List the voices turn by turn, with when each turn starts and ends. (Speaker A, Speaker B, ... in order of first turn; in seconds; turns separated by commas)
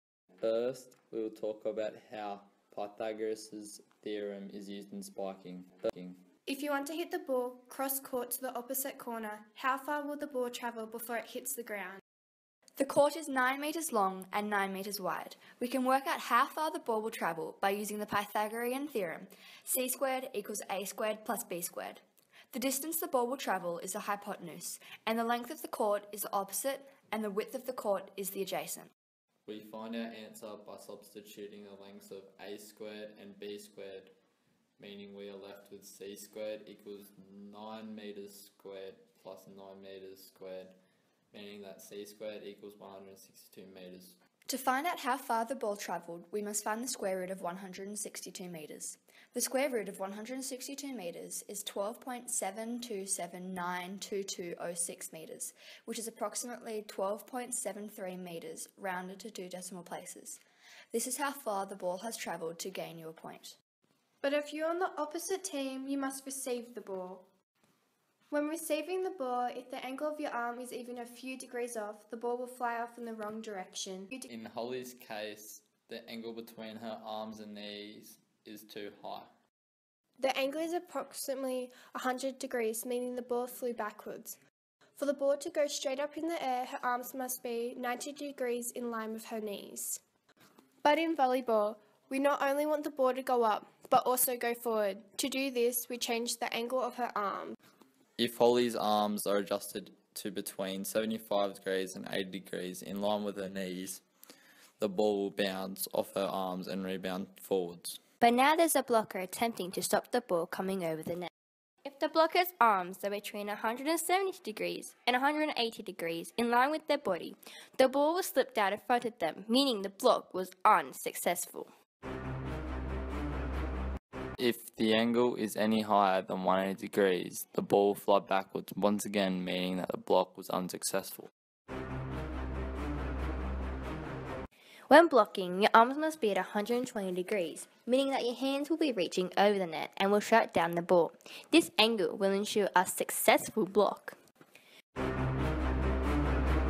Speaker A: 0.4-6.2, Speaker B: 6.5-12.0, Speaker C: 12.8-28.9, Speaker A: 29.4-34.1, Speaker A: 34.8-40.8, Speaker A: 41.3-44.2, Speaker C: 44.5-63.5, Speaker B: 64.2-67.2, Speaker B: 68.3-74.3, Speaker A: 74.3-79.3, Speaker B: 80.2-84.4, Speaker B: 85.0-90.0, Speaker B: 90.8-97.6, Speaker A: 98.2-104.0, Speaker A: 104.8-108.0, Speaker D: 108.2-111.3, Speaker D: 111.8-121.7, Speaker A: 124.4-131.3, Speaker D: 134.9-144.2